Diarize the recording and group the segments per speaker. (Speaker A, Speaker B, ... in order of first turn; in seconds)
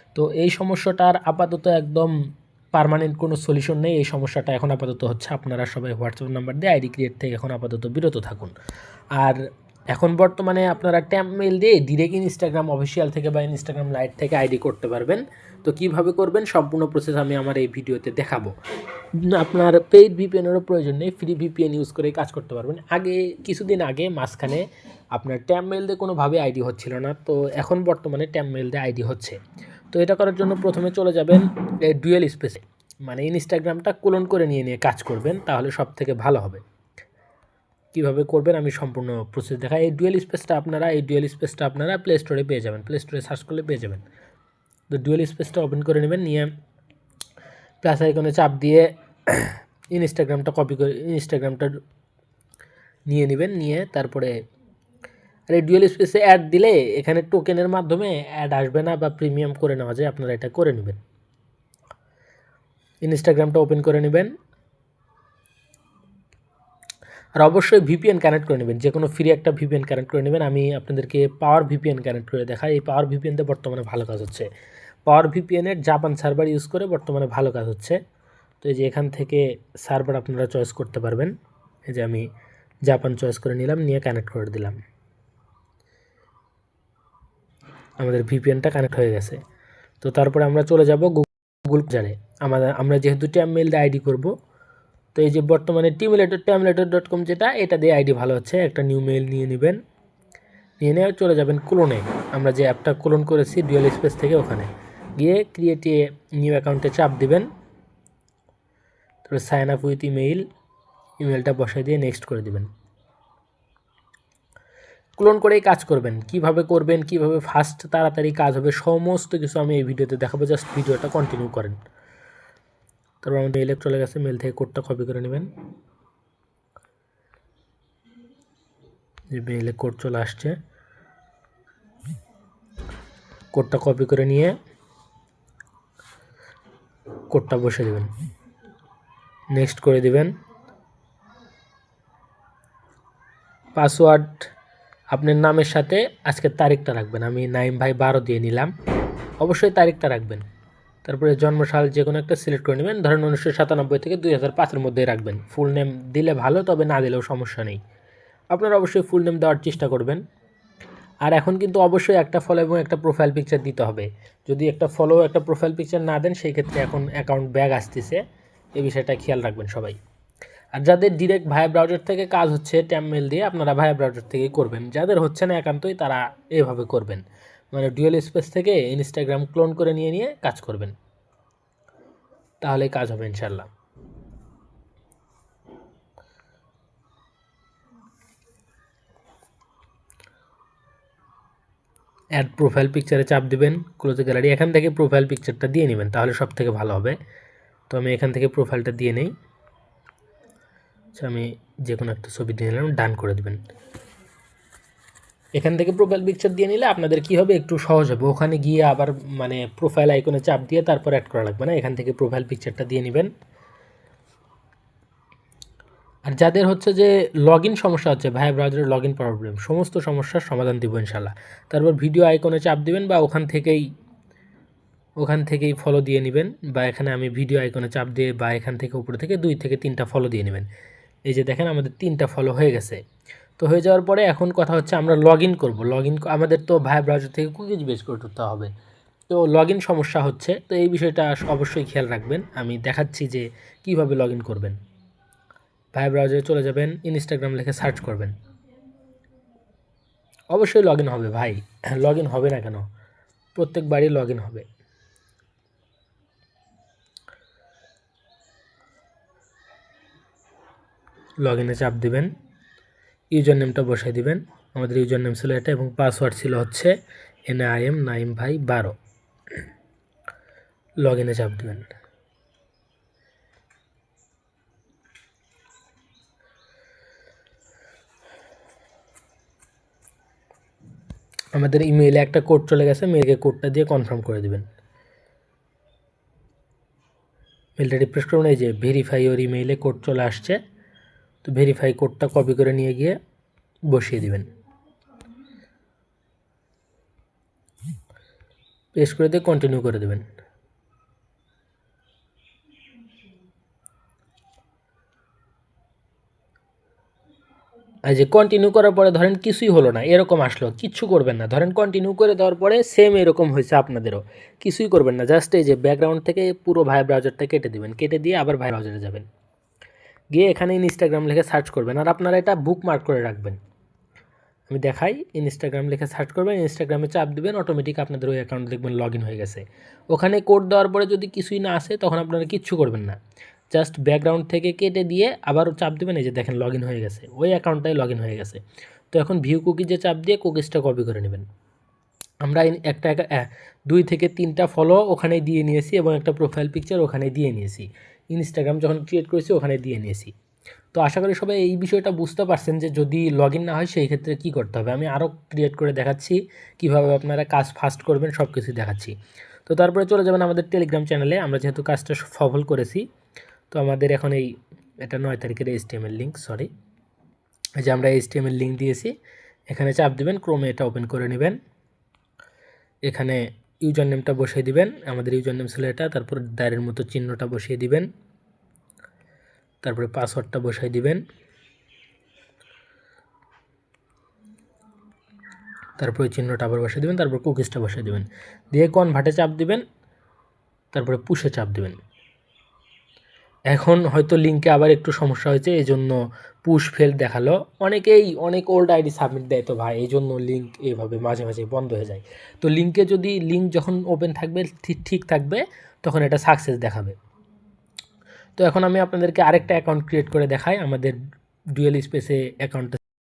Speaker A: 0.1-2.1, 2.7-8.5, 9.2-18.5, 19.2-24.6, 25.1-29.4, 29.9-36.6, 37.9-44.0, 44.9-46.5, 47.8-51.8, 53.1-54.3, 55.5-61.0, 63.0-64.3, 67.4-74.5, 75.1-78.0, 78.6-81.3, 81.9-82.3, 82.9-84.8, 88.0-89.4, 90.0-94.3, 95.1-99.8, 100.8-107.5, 109.2-110.5, 111.2-112.7, 115.2-121.8, 123.2-125.5, 129.3-130.6, 133.5-134.6, 137.3-138.1, 139.5-140.3, 143.8-144.5, 145.1-148.7, 149.4-150.4, 151.0-157.8, 158.5-160.2, 161.3-168.2, 168.8-170.0, 170.8-180.9, 182.6-183.7, 192.4-197.2, 197.9-199.3, 201.2-203.6, 205.6-213.3, 216.3-223.8, 225.2-230.7, 231.2-233.0, 233.6-238.7, 239.3-244.8, 245.9-248.3, 250.5-252.8, 253.6-254.7, 261.4-262.3, 263.3-266.9, 267.5-268.9, 271.0-271.9, 281.5-284.6, 287.8-290.6, 291.4-293.2, 293.9-294.5, 298.9-300.3, 308.1-319.3, 320.3-323.6, 324.7-333.2, 333.7-341.4, 342.4-350.3, 350.9-359.1, 359.6-363.0, 363.7-364.5, 365.0-366.7, 367.8-369.1, 369.7-371.6, 373.1-378.1, 379.8-381.2, 386.0-389.8, 390.9-392.0, 393.7-407.2, 408.6-411.2, 411.7-413.0